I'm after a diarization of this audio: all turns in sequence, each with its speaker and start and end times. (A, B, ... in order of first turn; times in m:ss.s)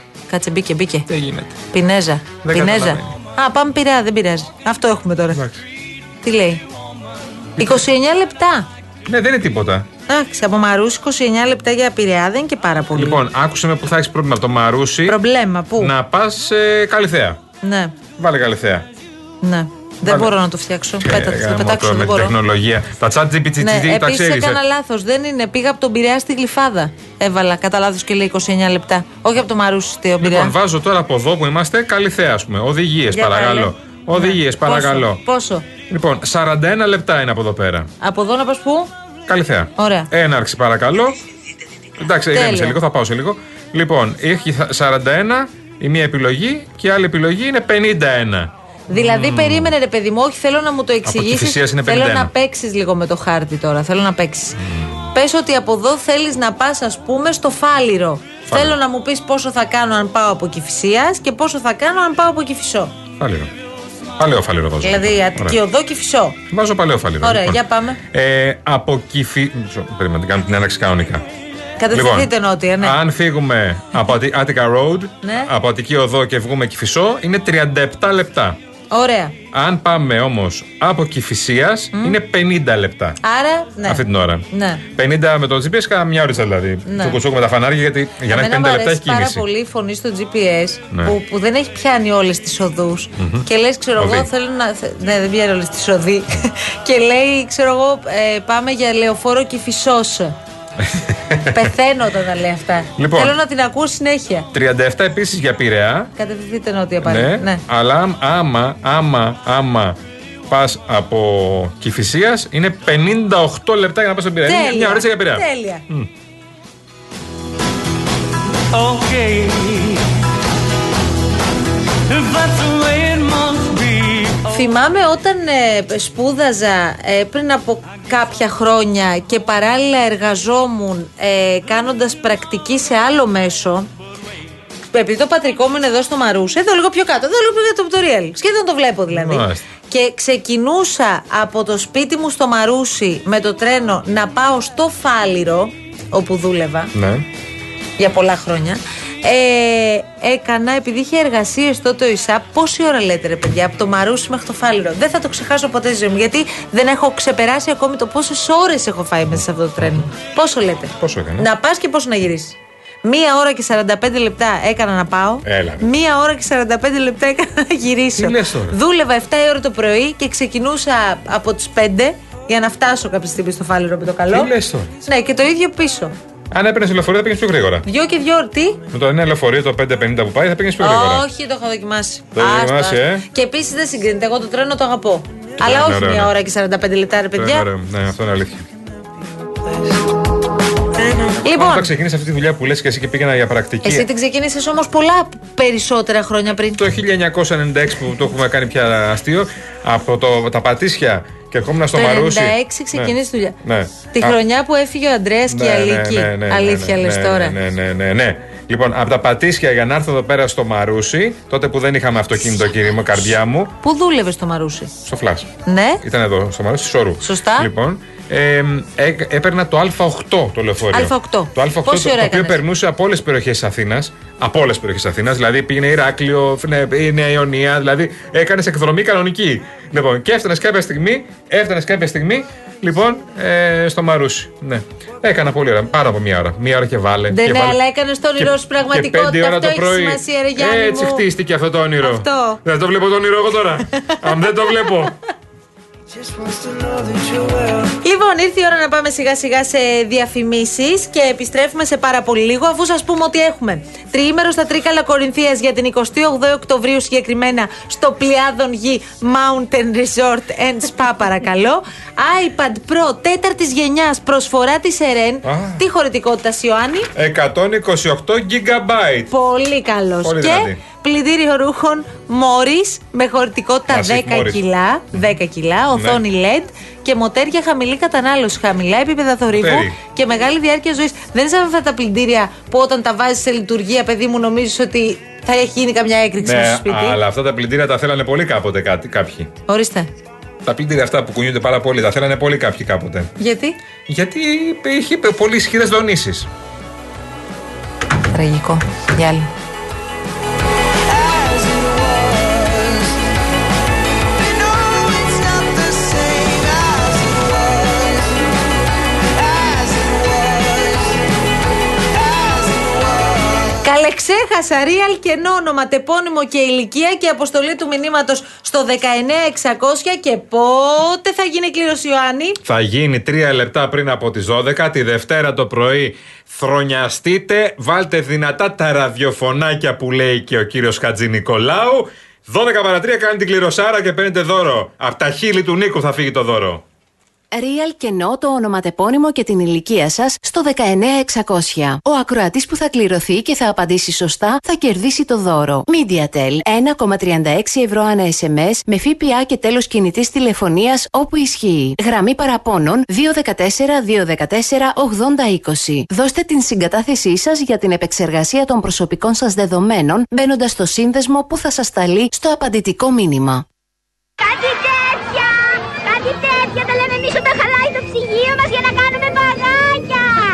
0:00.3-0:01.0 A
0:01.1-0:01.6 B
0:01.7-0:05.4 A
0:02.4-0:03.1 B
0:05.3-0:05.6 B
0:06.2-0:06.6 A
0:07.6-0:08.7 A
0:09.0-0:09.8 B
0:10.1-0:13.2 A
0:12.9-0:15.2 B
0:15.1-0:15.9 A
0:15.8-0:17.4 B
0:17.6-0:18.0 A
0:18.2-0:18.8 B
0:19.4-0:22.3 A
0:20.0-0:20.3 B
0:21.0-0:24.6 B
0:23.6-0:30.5 A
0:30.2-0:35.2 B
0:33.1-0:35.6 A
0:35.9-0:37.9 B
0:38.0-0:38.9 A
0:39.3-0:41.2 B
0:39.8-0:40.1 A
0:42.0-0:49.7 B
0:42.3-0:42.8 A
0:48.9-0:54.6 A
0:51.0-0:52.3 B
0:55.1-1:02.9 A
0:58.5-0:58.8 B
1:03.2-1:03.5 B
1:04.2-1:05.6 B
1:04.8-1:06.4 A
1:06.5-1:07.6 B
1:07.2-1:08.0 A
1:08.1-1:11.2 B
1:11.8-1:13.0 A
1:11.9-1:18.6 B
1:15.2-1:15.5 A
1:18.9-1:19.4 A
1:19.5-1:23.2 B
1:23.2-1:24.8 A
1:23.8-1:29.4 B
1:26.9-1:27.2 A
1:28.3-1:40.4 A
1:33.2-1:33.4 B
1:34.0-1:34.3 B
1:41.5-1:44.5 A
1:43.0-1:43.3 B
1:44.5-1:46.1 B
1:46.2-1:47.6 A
1:47.0-1:50.0 B
1:50.5-1:56.1 B
1:54.4-1:55.8 A
1:58.9-1:59.9 C
2:02.4-2:04.3 C
2:04.5-2:13.9 A
2:14.9-2:26.9 A
2:19.1-2:19.6 B
2:26.9-2:27.2 B
2:28.0-2:54.5 A
2:41.0-2:41.5 B
2:45.4-2:45.9 B
2:48.2-2:48.8 B
2:54.3-2:54.9 B
2:55.0-2:56.1 A
2:56.5-2:57.8 B
2:57.8-2:58.8 A
2:58.9-3:01.2 B
3:00.8-3:07.6 A
3:02.3-3:03.2 B
3:05.6-3:06.3 B
3:07.4-3:08.7 B
3:11.4-3:11.9 A
3:11.4-3:14.0 B
3:13.8-3:16.8 A
3:16.8-3:24.4 B
3:21.9-3:23.6 A
3:24.1-3:27.5 A
3:25.5-3:33.7 B
3:33.8-3:34.9 A
3:35.0-3:35.5 B
3:35.6-3:36.0 A
3:36.0-3:57.8 B
3:37.2-3:37.7 A
3:40.9-3:42.6 A
3:57.3-4:01.2 A
3:58.4-4:05.1 B
4:02.0-4:02.6 A
4:08.0-4:27.1 A
4:25.4-4:25.8 B
4:27.2-4:29.3 B
4:29.3-4:47.2 A
4:30.2-4:30.8 B
4:33.9-4:34.6 B
4:35.9-4:36.2 B
4:39.6-4:40.0 B
4:46.4-4:49.5 B
4:49.7-4:50.1 A
4:50.6-4:53.3 B
4:53.4-4:53.8 A
4:54.1-4:56.5 B
4:58.3-4:59.5 A
5:04.9-5:07.0 C
5:12.5-5:12.9 C
5:13.8-5:22.6 A
5:22.6-5:36.8 B
5:37.5-6:03.6 D
6:04.5-6:04.8 E
6:06.1-6:10.2 E